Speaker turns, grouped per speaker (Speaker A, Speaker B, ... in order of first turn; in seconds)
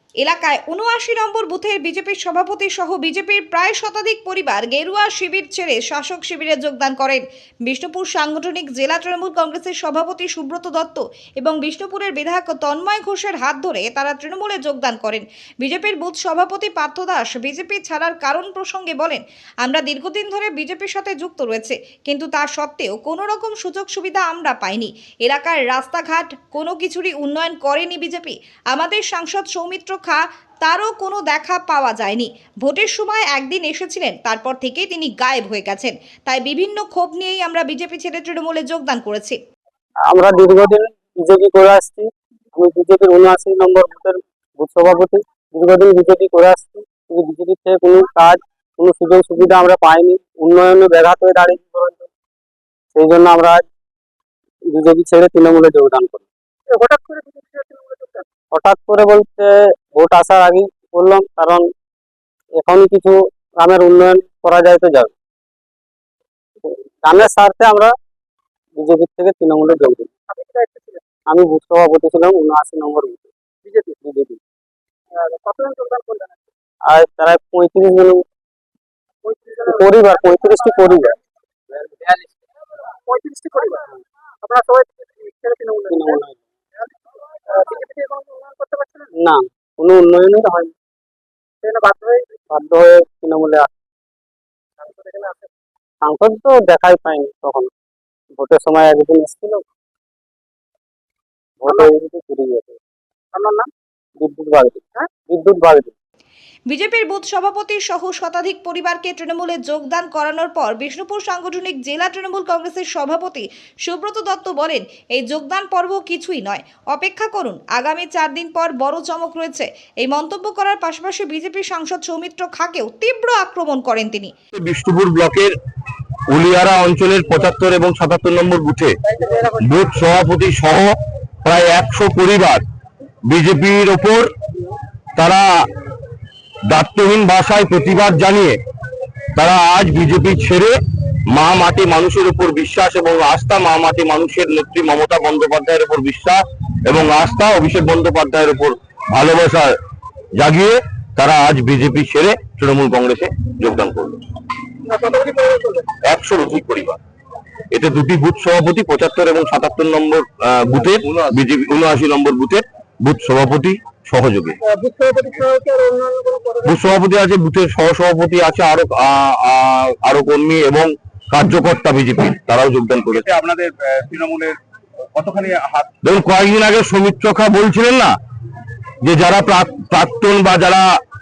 Speaker A: 0.2-39.4, 106.7-124.3
Speaker B: 40.1-52.1, 52.9-53.6, 54.7-56.3, 58.5-61.7, 62.6-65.1, 66.6-67.9, 68.8-70.1, 71.3-73.3, 74.0-74.4, 76.9-78.2, 79.6-81.2, 85.9-86.4, 89.2-90.7, 92.5-93.7, 96.0-97.7, 98.3-99.6, 101.6-102.8, 104.2-106.0
Speaker C: 56.7-58.2, 70.3-71.0, 75.2-76.3, 79.3-79.6, 83.1-83.8, 84.4-86.0, 87.5-89.1, 91.6-92.3, 94.8-95.5, 103.3-103.7
Speaker D: 124.6-125.5, 126.3-130.9, 131.4-132.6, 133.3-134.3, 135.2-135.4, 136.7-138.6, 139.4-140.7, 141.3-149.7, 150.4-154.2, 156.1-157.0, 157.7-164.6, 166.6-173.3, 176.0-178.1, 179.0-180.9
Speaker E: 155.3-155.7, 164.9-166.6, 173.1-174.6, 175.2-175.9